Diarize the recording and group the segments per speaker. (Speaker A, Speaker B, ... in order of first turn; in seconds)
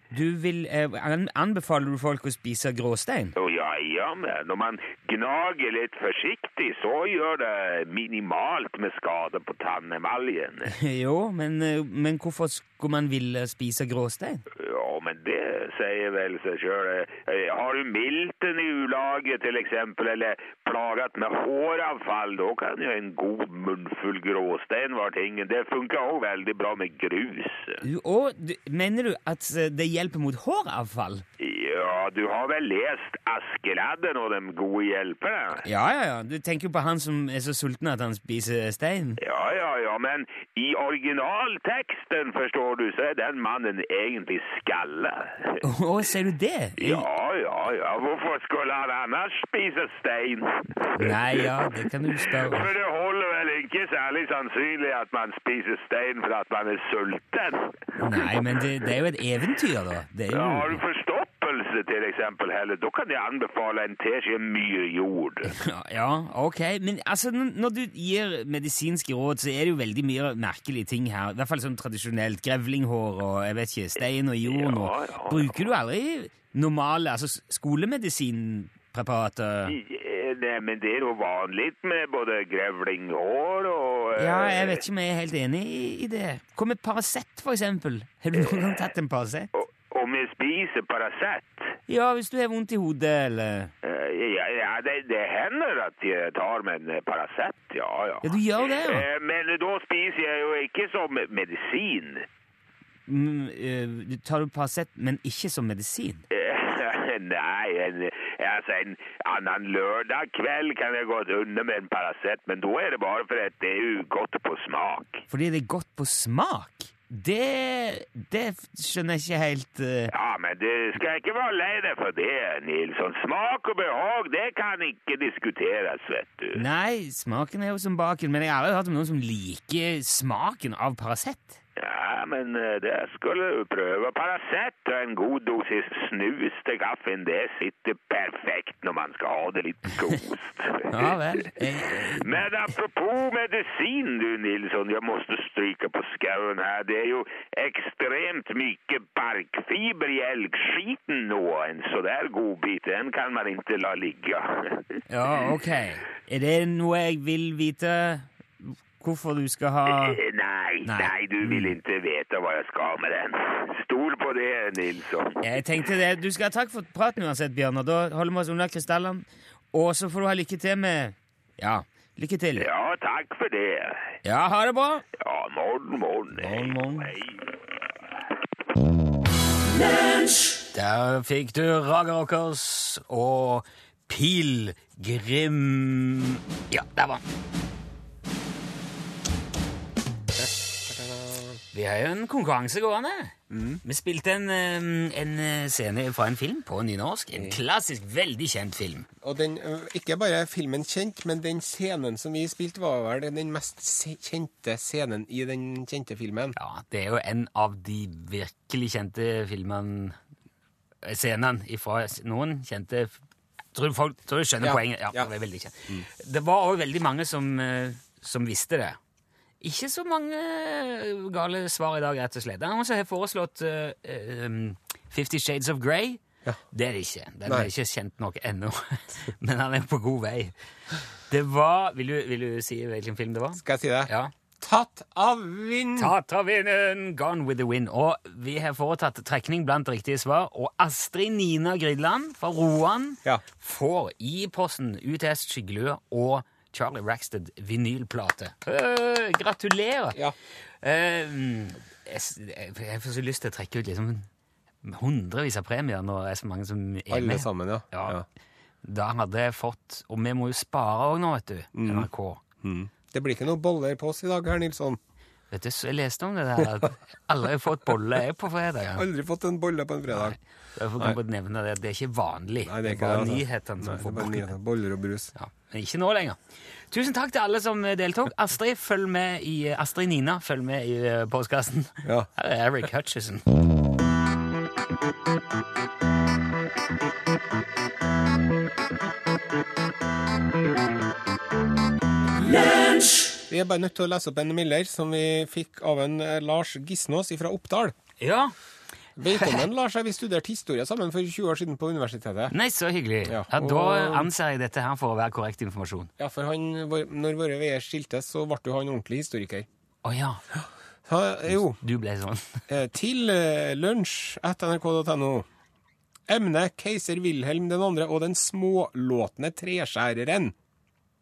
Speaker A: 0.1-3.4, 10.7-14.4, 27.8-31.2, 35.6-39.2, 45.6-47.1, 51.0-52.7, 58.0-60.8, 65.5-79.8, 84.2-89.5, 91.9-93.7, 98.2-99.1, 103.1-106.2, 115.3-120.1, 126.5-131.6, 140.9-142.4, 155.1-160.2, 160.8-161.8, 165.4-172.7, 174.2-175.0, 176.3-177.1, 180.7-187.2, 191.7-199.1, 206.6-210.2, 211.0-213.2, 213.7-219.0, 219.6-226.2, 226.7-230.5, 231.3-234.3, 236.0-250.2, 250.8-254.3, 254.8-258.2, 258.8-262.4, 265.5-269.1, 270.1-274.5, 275.4-276.4, 276.9-283.4, 298.2-298.6, 302.5-306.1, 310.0-310.4, 311.5-312.6
Speaker B: 3.4-10.7, 14.6-27.8, 31.4-35.6, 39.2-45.6, 46.8-51.5, 52.3-58.4, 60.3-65.5, 74.5-75.7, 79.7-84.8, 88.3-88.9, 89.5-91.7, 93.8-102.3, 106.3-115.2, 120.1-126.6, 131.8-141.2, 142.1-154.8, 160.0-165.4, 172.6-174.0, 175.2-177.4
Speaker C: 190.3-191.6, 193.5-193.8, 197.3-197.6, 199.2-206.6, 214.6-215.3, 233.6-236.1, 257.1-258.2, 261.8-262.1, 262.6-265.0, 269.0-270.4, 272.6-275.3, 293.5-297.9, 299.2-302.5, 303.2-304.3, 306.2-309.7, 310.6-311.8, 312.7-315.5, 316.3-320.5